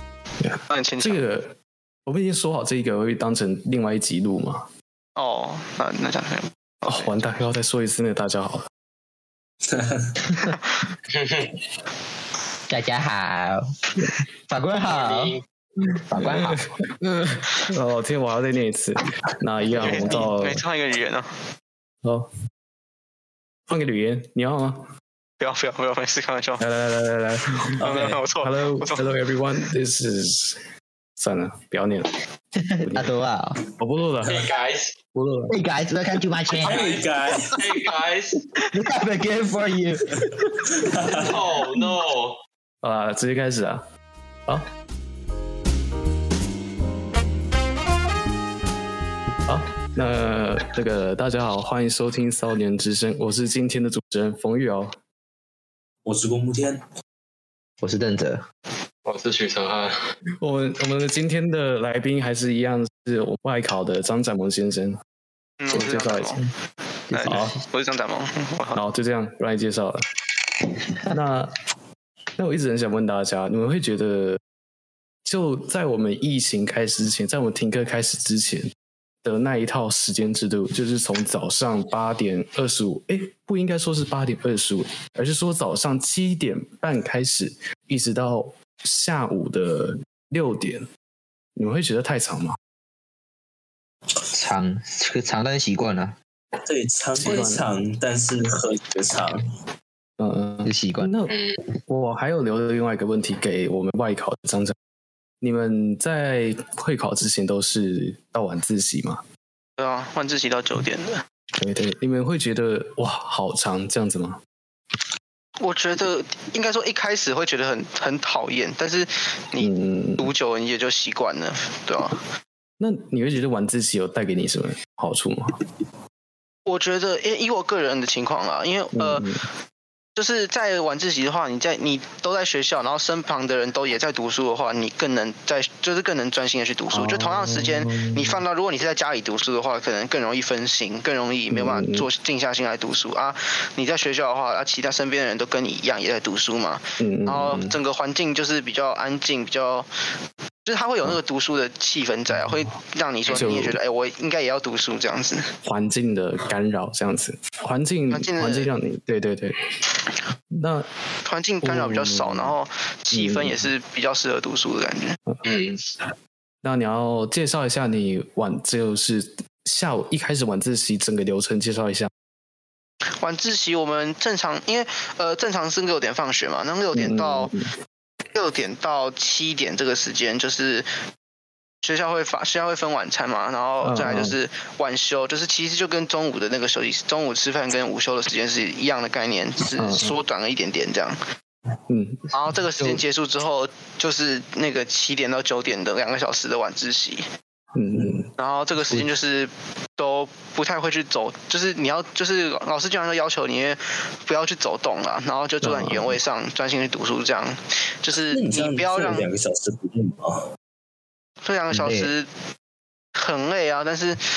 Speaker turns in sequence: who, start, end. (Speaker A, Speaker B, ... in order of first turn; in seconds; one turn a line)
Speaker A: 0.4-4.7
Speaker B: 0.7-1.2
Speaker B: 5.2-7.2
Speaker A: 6.9-8.7
Speaker C: 9.7-10.2
Speaker D: 11.1-11.5
Speaker E: 12.7-15.4
Speaker D: 14.8-15.4
Speaker A: 15.8-20.6
Speaker E: 16.1-16.7
Speaker E: 19.7-20.3
Speaker B: 19.7-21.3
Speaker A: 22.0-22.3
Speaker A: 23.7-24.9
Speaker B: 25.4-26.6
Speaker A: 26.6-30.6
Speaker B: 27.8-29.1
Speaker A: 31.2-32.2
Speaker E: 32.5-33.6
Speaker A: 32.8-33.1
Speaker A: 33.8-34.5
Speaker D: 34.2-35.0
Speaker A: 35.1-35.6
Speaker E: 35.5-37.0
Speaker D: 36.6-38.4
Speaker C: 36.7-37.6
Speaker E: 38.7-40.6
Speaker C: 40.8-41.4
Speaker D: 41.2-42.4
Speaker A: 42.8-43.9
Speaker A: 49.5-55.0
Speaker C: 56.0-56.8
Speaker E: 57.8-58.5
Speaker D: 59.0-59.9
Speaker A: 60.4-65.0
Speaker B: 65.6-66.4
Speaker A: 65.7-66.4
Speaker E: 67.1-67.6
Speaker B: 67.1-68.8
Speaker A: 67.2-67.5
Speaker A: 68.7-70.0
Speaker A: 71.1-71.5
Speaker A: 72.4-74.4
Speaker A: 75.2-78.7
Speaker A: 79.2-90.9
Speaker A: 91.6-92.6
Speaker E: 94.3-96.2
Speaker C: 96.7-99.4
Speaker A: 97.2-97.7
Speaker A: 100.2-101.3
Speaker E: 100.7-101.1
Speaker D: 101.3-101.6
Speaker A: 101.9-104.8
Speaker A: 105.4-109.2
Speaker B: 109.8-111.2
Speaker A: 111.6-114.4
Speaker B: 115.6-122.2
Speaker A: 119.6-120.3
Speaker A: 122.8-125.6
Speaker B: 126.7-129.3
Speaker A: 128.9-129.4
Speaker B: 130.2-149.9
Speaker A: 136.9-138.4
Speaker A: 141.5-142.1
Speaker A: 147.0-147.8
Speaker B: 150.7-155.5
Speaker A: 152.3-152.7
Speaker A: 153.3-153.8
Speaker A: 155.6-159.6
Speaker B: 158.1-158.7
Speaker A: 160.5-160.9
Speaker B: 161.2-165.2
Speaker A: 161.6-162.6
Speaker A: 163.1-163.6
Speaker D: 165.4-165.8
Speaker A: 166.6-172.1
Speaker B: 173.2-177.5
Speaker A: 176.9-177.7
Speaker B: 178.3-180.9
Speaker B: 181.8-191.2
Speaker A: 183.8-184.4
Speaker A: 189.8-190.2
Speaker A: 191.9-192.3
Speaker B: 192.3-197.3
Speaker A: 197.7-198.3
Speaker B: 198.4-209.3
Speaker A: 205.6-206.2
Speaker C: 208.3-210.5
Speaker B: 211.4-212.3
Speaker E: 211.7-212.1
Speaker B: 213.2-214.2